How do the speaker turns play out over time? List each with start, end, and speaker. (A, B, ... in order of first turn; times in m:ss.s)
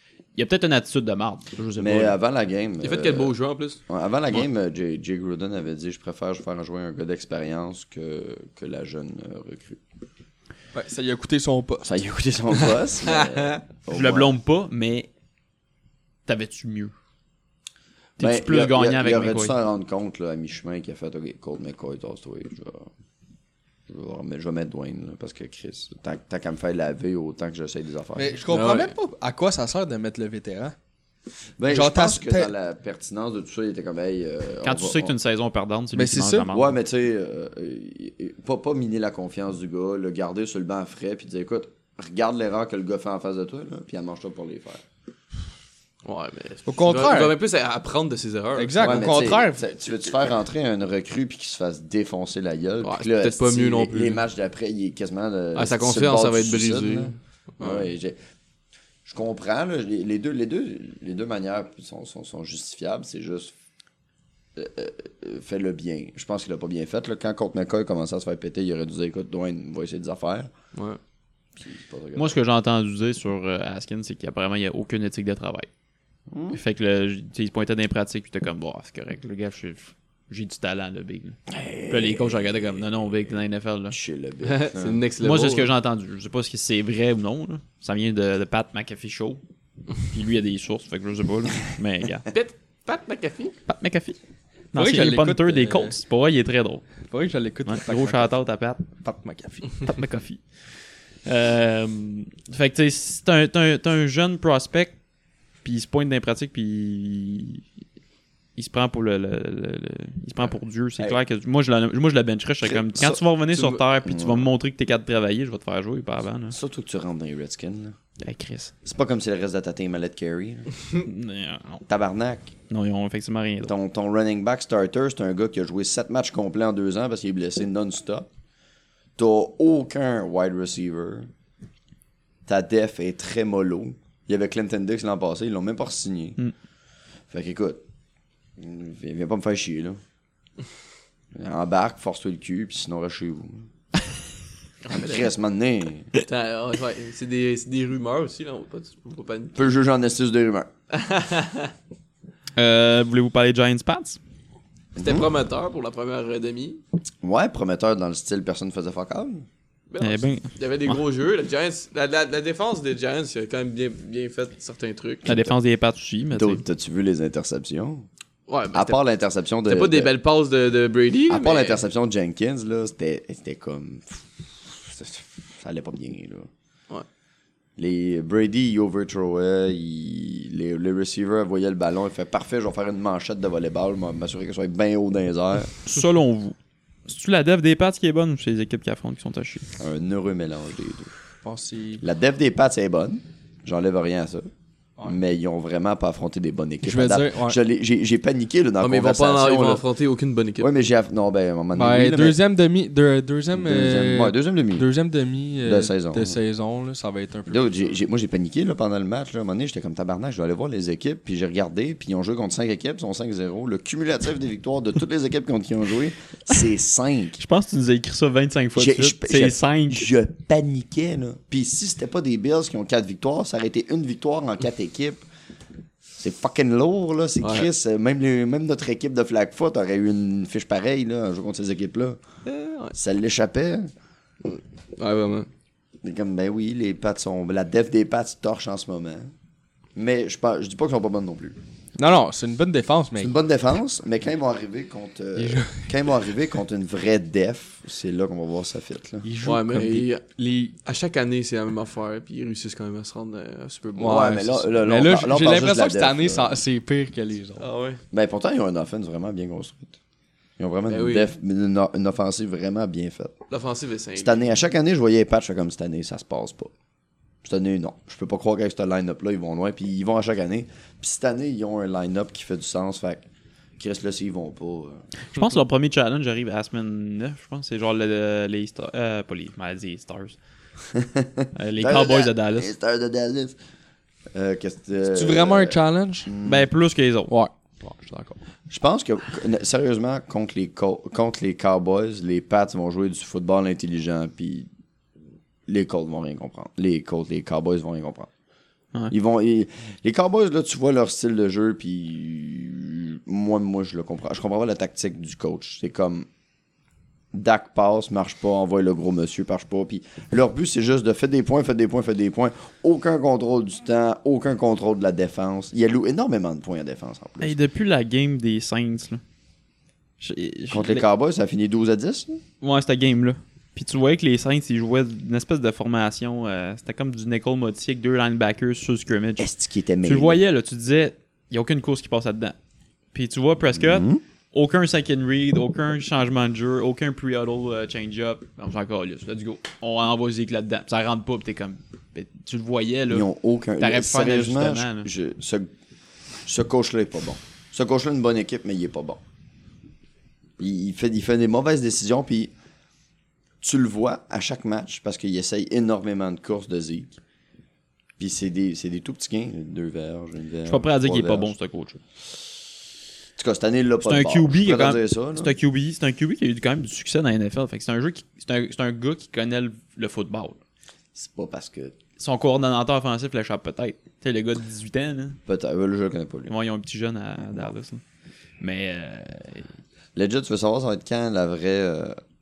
0:00.4-0:02.2 A
0:01.8-0:03.3 B
0:02.8-0:03.8 C
0:03.9-0:09.8 B
0:10.7-0:11.9 D
0:11.8-0:14.4 B
0:13.1-0:13.5 C
0:13.9-0:15.1 A
0:16.3-0:16.9 A
0:18.2-0:19.6 A
0:18.2-0:22.9 B
0:23.9-0:28.4 B
0:28.2-0:30.8 D
0:28.5-0:29.0 C
0:31.6-0:35.1 B
0:31.7-0:32.5 D
0:34.6-0:36.8 A
0:35.9-0:36.5 D
0:36.5-0:44.8 B
0:46.0-0:49.2 C
0:46.7-0:47.4 D
0:48.6-0:49.7 D
0:48.8-0:58.2 B
0:52.8-0:54.2 C
0:55.6-0:57.9 C
0:59.0-1:03.5 B
1:04.6-1:10.5 B
1:11.6-1:12.4 B
1:12.2-1:15.7 A
1:16.3-1:16.6 B
1:16.5-1:24.0 A
1:21.5-1:25.0 B
1:24.4-1:25.7 C
1:25.2-1:29.4 A
1:30.0-1:32.2 A
1:32.3-1:33.6 C
1:33.7-1:34.2 A
1:34.7-1:36.9 A
1:34.8-1:36.0 D
1:37.1-1:38.4 D
1:37.7-1:38.8 A
1:38.9-1:39.9 D
1:39.8-1:45.0 A
1:45.6-1:47.6 A
1:48.6-1:56.6 A
1:52.6-1:54.5 B
1:56.5-1:58.0 B
1:58.2-1:58.7 A
1:58.8-2:00.7 B
2:01.0-2:01.8 A
2:01.9-2:02.5 B
2:02.7-2:03.7 A
2:03.7-2:08.3 B
2:09.2-2:11.3 B
2:12.5-2:16.4 B
2:17.3-2:17.8 B
2:18.6-2:20.0 B
2:21.3-2:23.7 B
2:24.9-2:26.1 B
2:26.2-2:29.7 C
2:29.6-2:30.7 B
2:31.0-2:31.7 C
2:32.6-2:34.2 A
2:35.0-2:35.3 B
2:35.0-2:36.8 C
2:37.2-2:39.5 B
2:39.9-2:45.3 C
2:40.0-2:41.0 A
2:45.2-2:45.6 B
2:45.3-2:46.6 A
2:46.3-2:48.1 B
2:48.5-2:49.0 C
2:48.7-2:50.1 B
2:49.7-2:51.8 C
2:51.3-2:56.5 B
2:57.8-3:05.8 B
3:05.9-3:06.6 A
3:07.1-3:09.6 A
3:09.8-3:11.2 B
3:11.4-3:12.0 D
3:12.0-3:14.5 B
3:15.0-3:19.8 B
3:16.8-3:17.6 D
3:18.8-3:20.7 C
3:20.6-3:22.4 B
3:21.8-3:27.8 D
3:23.5-3:24.9 B
3:25.6-3:26.4 B
3:27.5-3:37.4 B
3:37.4-3:40.1 A
3:38.8-3:45.2 B
3:46.2-3:52.2 B
3:47.4-3:47.7 C
3:52.4-3:53.0 C
3:52.9-3:53.9 B
3:54.5-3:55.5 C
3:56.0-3:59.3 B
4:00.0-4:01.6 B
4:02.0-4:03.4 D
4:03.2-4:09.3 B
4:05.4-4:06.3 D
4:09.2-4:10.7 D
4:09.4-4:10.3 C
4:10.8-4:14.4 C
4:14.0-4:16.6 B
4:14.0-4:17.7 D
4:17.6-4:18.0 C
4:18.1-4:20.0 B
4:20.6-4:23.4 B
4:20.9-4:21.3 C
4:23.5-4:24.5 C
4:24.2-4:26.7 B
4:27.4-4:33.3 B
4:33.8-4:35.0 B
4:35.3-4:40.4 A
4:40.9-4:43.6 B
4:41.6-4:42.7 A
4:44.3-4:46.7 B
4:45.1-4:46.3 D
4:46.4-4:47.3 A
4:48.7-4:54.7 B
4:55.7-4:58.3 B
4:59.1-5:06.3 B
5:07.3-5:17.6 B
5:17.4-5:19.2 A
5:20.2-5:21.0 A
5:20.7-5:22.4 B
5:22.6-5:29.5 A
5:29.4-5:30.4 B
5:30.0-5:32.6 A
5:33.1-5:43.3 A
5:33.7-5:34.2 B
5:43.1-5:45.7 B
5:43.8-5:45.1 A
5:46.4-5:49.2 B
5:50.6-5:52.5 B
5:53.6-5:57.2 B
5:58.2-6:01.5 B
6:00.7-6:02.0 A
6:03.4-6:05.5 B
6:04.0-6:10.6 A
6:11.1-6:12.0 B
6:12.2-6:15.4 A
6:15.5-6:16.5 B
6:16.5-6:18.0 A
6:18.6-6:19.7 A
6:20.2-6:22.2 B